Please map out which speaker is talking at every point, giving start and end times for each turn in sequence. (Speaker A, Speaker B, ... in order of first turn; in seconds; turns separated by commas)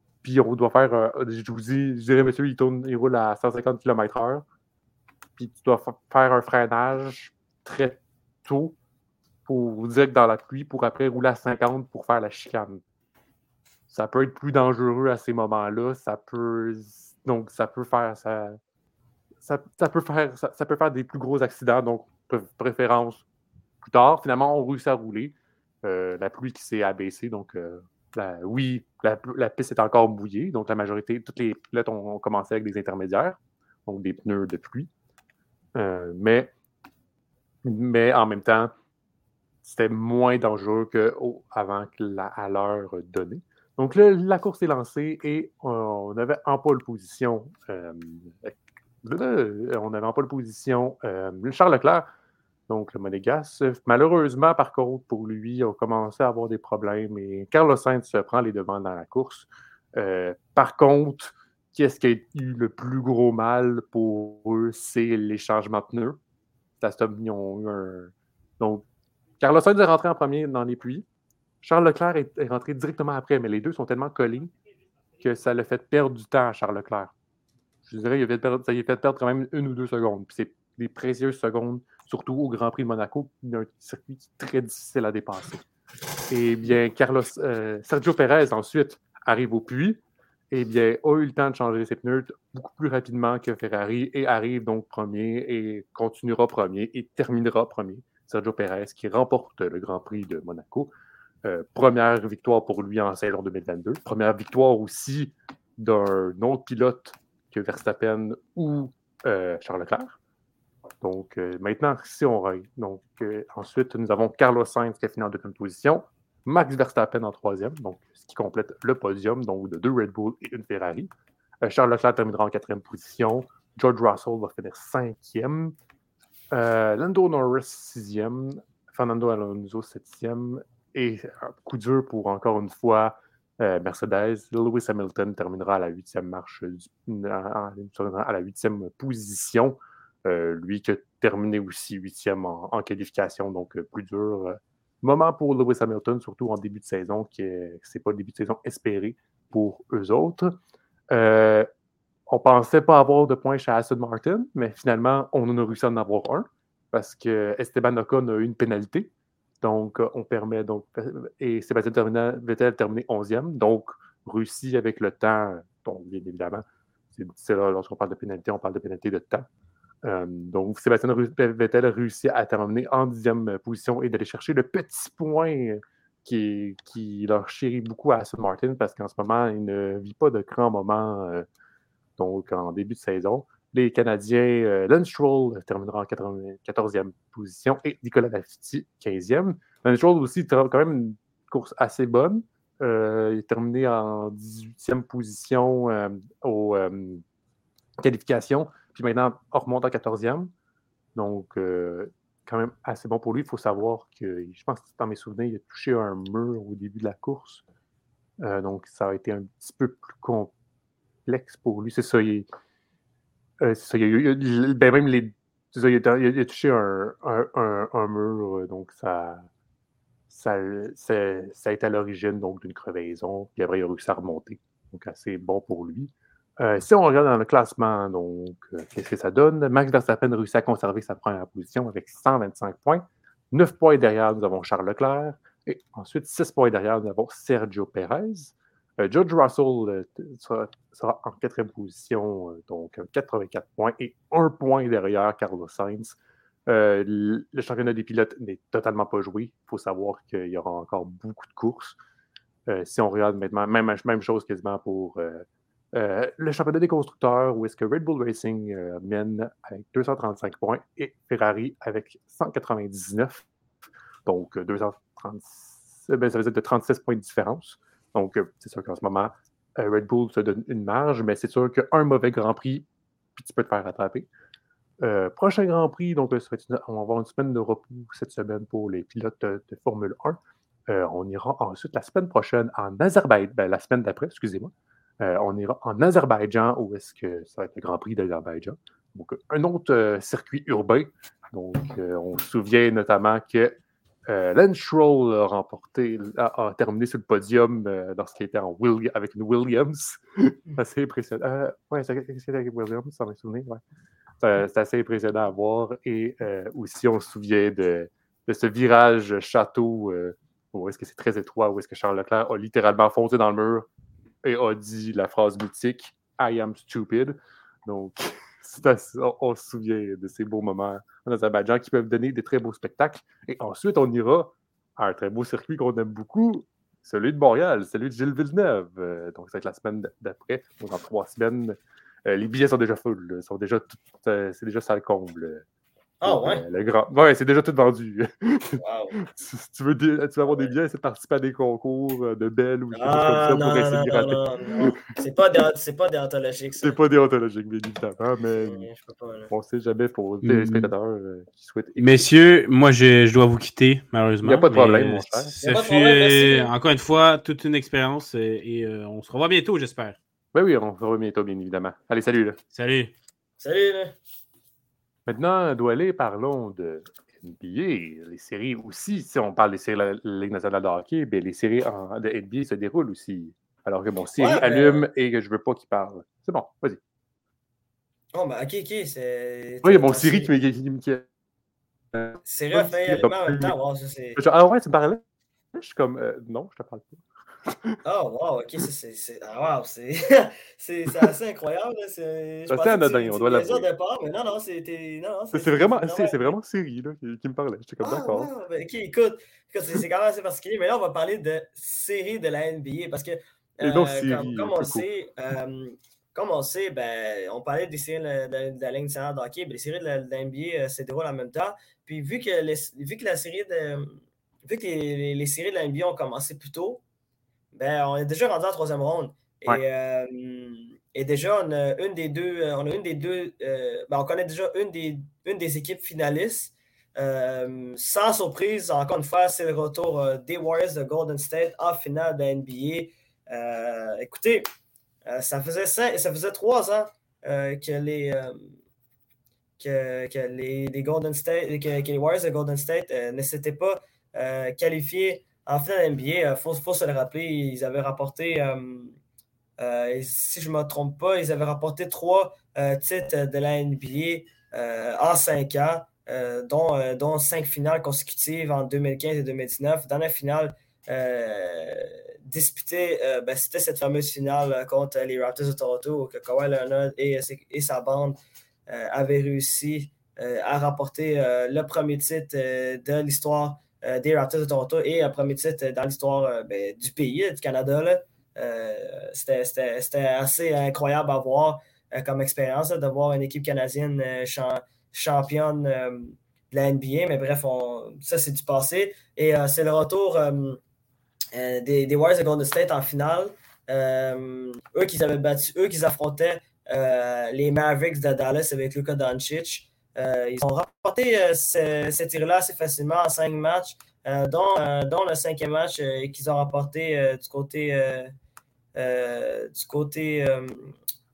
Speaker A: 0.2-4.5, Speaker A: 5.4-8.8, Speaker A: 9.5-12.8, Speaker A: 13.9-18.6, Speaker A: 19.4-23.2, Speaker A: 23.8-34.9, Speaker A: 35.8-36.5, Speaker A: 37.6-38.7, Speaker A: 39.6-52.1, Speaker A: 52.7-66.2, Speaker A: 66.8-68.8, Speaker A: 69.4-71.0, Speaker A: 71.6-74.5, Speaker A: 75.2-77.1, Speaker A: 77.8-85.6, Speaker A: 86.3-90.0, Speaker A: 90.5-100.9, Speaker A: 101.4-110.2, Speaker A: 111.0-121.1, Speaker A: 121.6-125.8, Speaker A: 126.5-150.6, Speaker A: 151.1-151.7, Speaker A: 152.3-159.1, Speaker A: 159.6-169.5, Speaker A: 170.0-181.4, Speaker A: 182.2-197.2, Speaker A: 198.0-200.5, Speaker A: 201.2-207.6, Speaker A: 208.4-210.5, Speaker A: 211.3-212.4, Speaker A: 213.6-219.4, Speaker A: 220.3-252.0, Speaker A: 252.7-263.5, Speaker A: 264.3-274.3, Speaker A: 275.0-293.8, Speaker A: 294.3-303.8, Speaker A: 304.4-313.9, Speaker A: 314.4-335.6, Speaker B: 336.2-336.6, Speaker A: 336.2-345.0, Speaker B: 338.8-339.2, Speaker B: 340.5-340.7, Speaker B: 342.9-347.0, Speaker A: 346.8-348.9, Speaker B: 348.6-349.5, Speaker A: 349.5-352.3, Speaker C: 350.4-350.9, Speaker C: 352.0-360.2, Speaker A: 354.4-355.5, Speaker B: 355.6-356.7, Speaker A: 360.5-362.6, Speaker C: 362.7-363.1, Speaker B: 363.6-364.1, Speaker A: 365.3-377.0, Speaker B: 374.4-375.1, Speaker B: 378.3-380.5, Speaker A: 379.8-381.2, Speaker A: 382.1-383.8, Speaker B: 382.4-384.4, Speaker A: 384.4-385.2, Speaker A: 385.7-388.0, Speaker B: 388.1-396.6, Speaker A: 392.7-393.9, Speaker A: 395.5-398.5, Speaker B: 398.0-417.0, Speaker A: 403.8-405.1, Speaker B: 417.7-434.7, Speaker B: 435.3-438.8, Speaker B: 439.8-449.2, Speaker B: 449.8-490.8, Speaker B: 491.5-508.3, Speaker B: 508.9-511.0